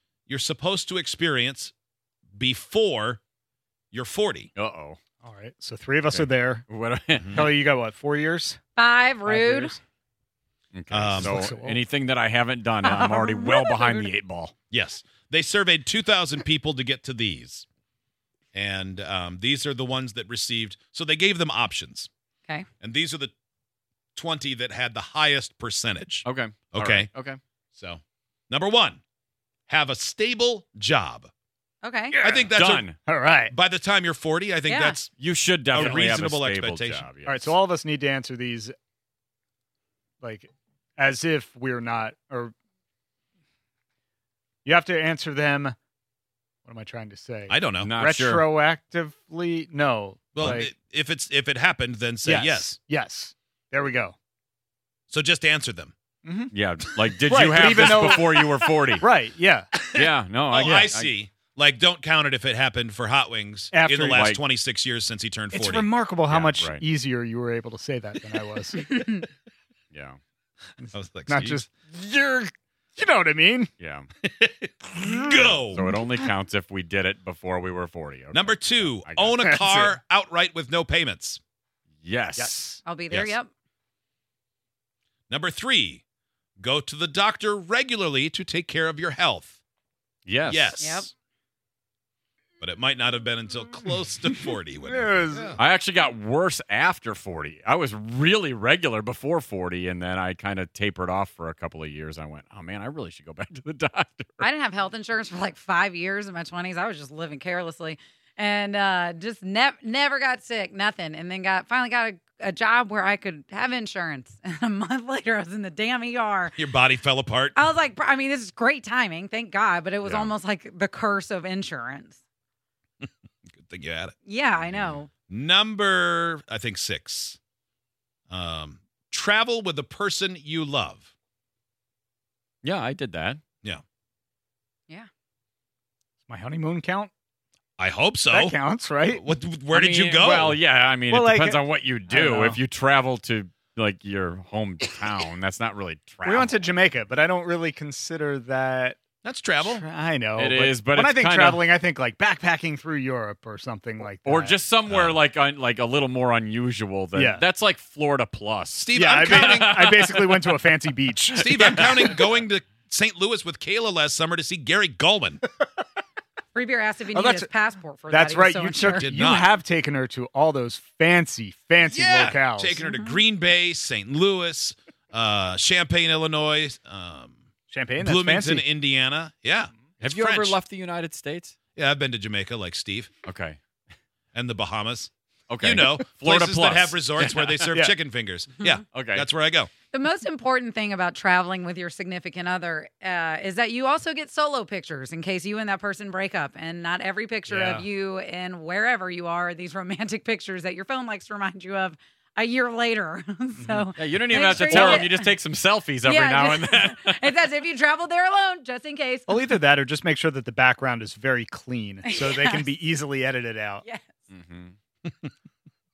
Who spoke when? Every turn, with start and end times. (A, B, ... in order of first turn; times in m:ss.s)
0:00.3-0:01.7 A
0:02.4-0:03.2 A
0:03.9-0:04.5 A
0:04.6-0:05.0 B
0:05.2-0:06.7 C
0:06.1-0:07.6 B
0:07.2-0:07.5 A
0:07.3-0:08.6 C
0:08.8-0:09.8 D
0:09.2-0:09.8 C
0:10.7-0:14.5 B
0:10.9-0:11.4 A
0:11.2-0:11.8 C
0:12.8-0:14.1 D
0:14.7-0:17.7 A
0:18.5-0:22.1 A
0:22.8-0:23.3 A
0:24.2-0:27.1 A
0:26.2-0:27.4 B
0:27.8-0:29.0 A
0:29.7-0:31.3 A
0:31.8-0:32.2 D
0:32.1-0:32.5 C
0:32.2-0:32.9 A
0:32.6-0:33.0 B
0:33.1-0:33.5 C
0:33.5-0:35.1 A
0:34.7-0:35.0 D
0:35.2-0:37.5 B
0:35.7-0:37.0 A
0:37.2-0:38.8 C
0:40.2-0:42.5 C
0:44.6-0:45.8 C
0:46.6-0:50.7 C
0:47.5-0:47.9 A
0:47.8-0:48.5 B
0:50.4-0:52.7 A
0:52.2-0:54.2 C
0:55.1-0:55.9 A
0:56.2-0:56.5 C
0:56.5-0:59.1 B
0:57.3-0:59.8 C
0:57.6-0:58.4 A
0:59.8-1:05.9 A
1:00.0-1:01.1 B
1:00.6-1:00.9 C
1:03.7-1:04.3 C
1:04.1-1:04.4 B
1:05.5-1:09.0 C
1:06.3-1:06.8 B
1:08.8-1:09.2 D
1:09.9-1:10.2 B
1:10.8-1:13.7 C
1:10.9-1:11.6 A
1:13.8-1:14.1 B
1:14.2-1:15.9 A
1:15.0-1:16.0 C
1:15.7-1:19.4 B
1:18.3-1:21.4 A
1:19.4-1:20.0 C
1:22.0-1:22.6 B
1:22.4-1:22.8 C
1:22.8-1:23.5 D
1:23.1-1:23.4 A
1:25.3-1:26.0 A
1:26.6-1:29.6 A
1:30.3-1:30.8 B
1:30.5-1:31.1 A
1:30.8-1:31.1 D
1:32.6-1:35.6 A
1:34.8-1:35.6 C
1:35.6-1:44.4 B
1:44.4-1:56.6 D
1:56.6-1:57.6 A
1:57.6-2:02.2 D
2:00.0-2:00.3 B
2:03.0-2:04.1 A
2:04.2-2:05.1 D
2:04.7-2:07.4 A
2:08.3-2:11.1 A
2:12.6-2:13.4 B
2:16.3-2:17.1 C
2:17.8-2:18.6 A
2:18.3-2:19.2 C
2:19.1-2:20.6 A
2:19.7-2:26.8 B
2:21.1-2:22.6 C
2:26.2-2:29.0 C
2:29.2-2:29.8 A
2:29.6-2:34.6 C
2:30.4-2:31.7 B
2:34.2-2:40.6 B
2:34.9-2:35.2 A
2:37.1-2:37.4 C
2:38.9-2:39.9 A
2:39.0-2:41.5 C
2:41.3-2:45.4 A
2:41.4-2:42.3 B
2:46.5-2:49.1 D
2:47.1-2:47.5 C
2:48.1-2:52.8 C
2:48.9-2:49.5 A
2:51.8-2:57.4 A
2:52.8-2:53.2 D
2:57.7-2:58.7 C
2:58.0-3:00.6 A
3:00.0-3:01.5 B
3:01.8-3:03.1 A
3:03.3-3:03.6 B
3:04.3-3:09.7 A
3:05.5-3:07.7 B
3:08.9-3:09.3 B
3:09.9-3:25.3 D
3:17.5-3:17.9 C
3:23.6-3:23.9 C
3:24.0-3:27.4 B
3:24.5-3:25.1 C
3:26.0-3:29.6 D
3:29.3-3:33.8 C
3:32.0-3:32.7 D
3:34.3-3:34.8 B
3:35.1-3:35.3 A